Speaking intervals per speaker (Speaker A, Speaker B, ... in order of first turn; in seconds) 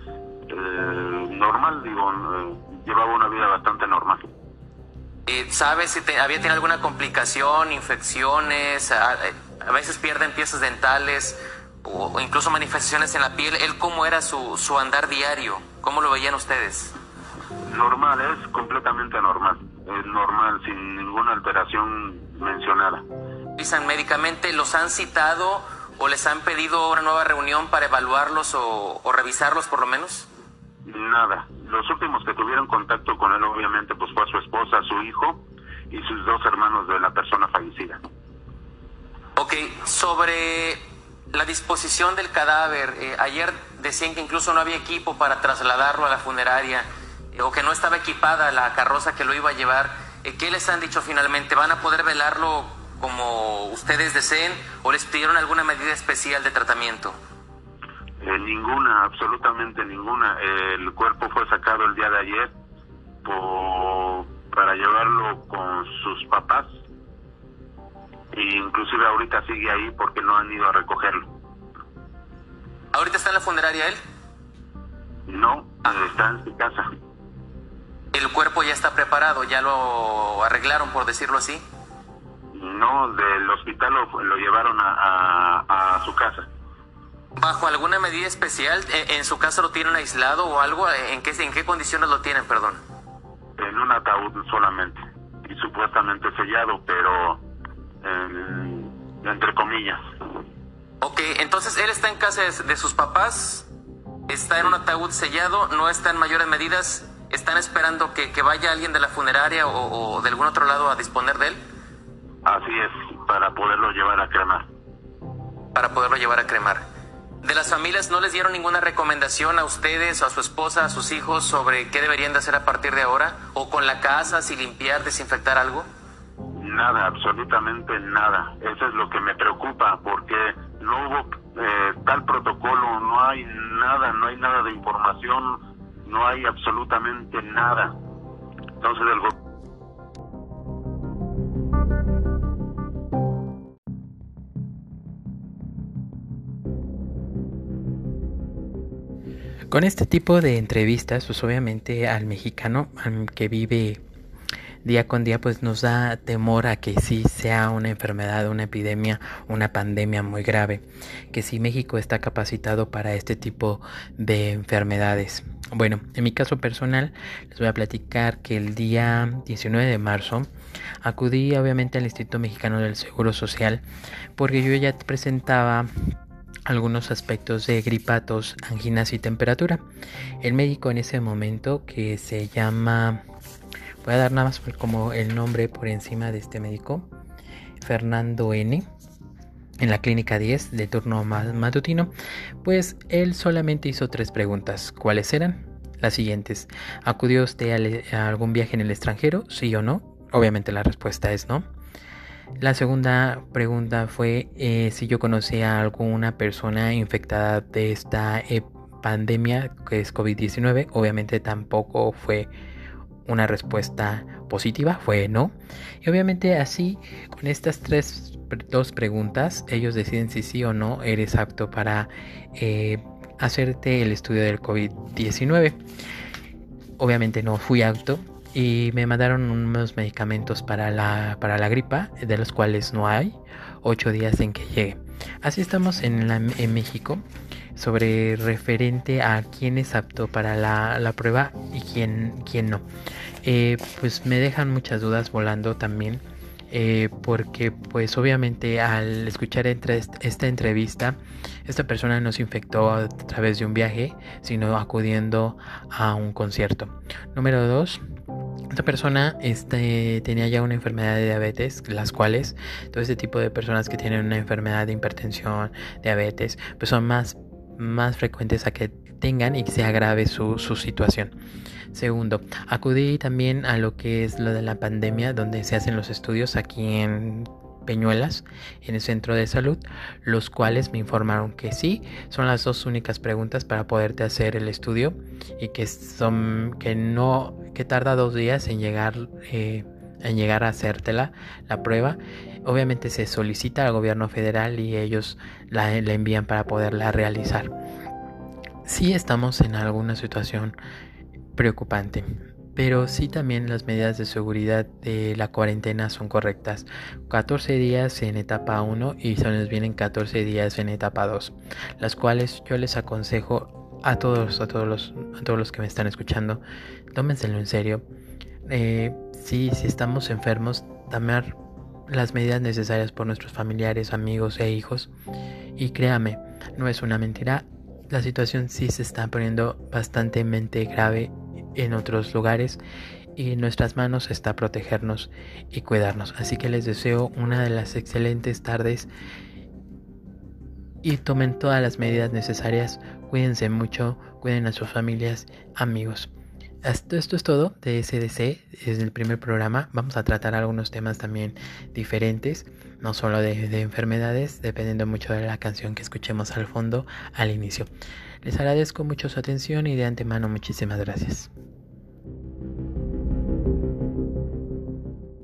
Speaker A: 0.5-4.3, 17.6-23.0, 30.9-38.0, 58.2-62.5, 63.2-66.7, 68.3-71.2, 75.3-76.9, 82.5-86.5, 93.6-97.4, 98.0-100.0, 112.5-114.7, 126.5-137.9, 138.8-139.3
Speaker B: 5.3-16.9, 23.6-30.3, 39.4-40.8, 41.3-57.1, 72.9-74.0, 78.1-81.6, 87.4-92.8, 101.0-103.7, 104.3-111.6, 115.7-116.8, 117.4-125.9
Speaker C: 149.7-154.0, 154.8-170.5, 171.0-173.8, 174.4-175.9, 176.7-179.8, 180.4-183.2, 184.0-187.1, 187.8-188.8, 189.8-201.6, 202.6-212.5, 213.2-225.8, 227.0-237.2, 237.8-242.8, 243.4-258.0, 258.7-271.3, 271.9-297.7, 298.9-300.8, 301.6-316.6, 317.1-318.0, 318.6-321.6, 322.1-325.1, 325.8-332.8, 333.4-339.1, 341.0-346.3, 346.8-357.9, 358.4-361.5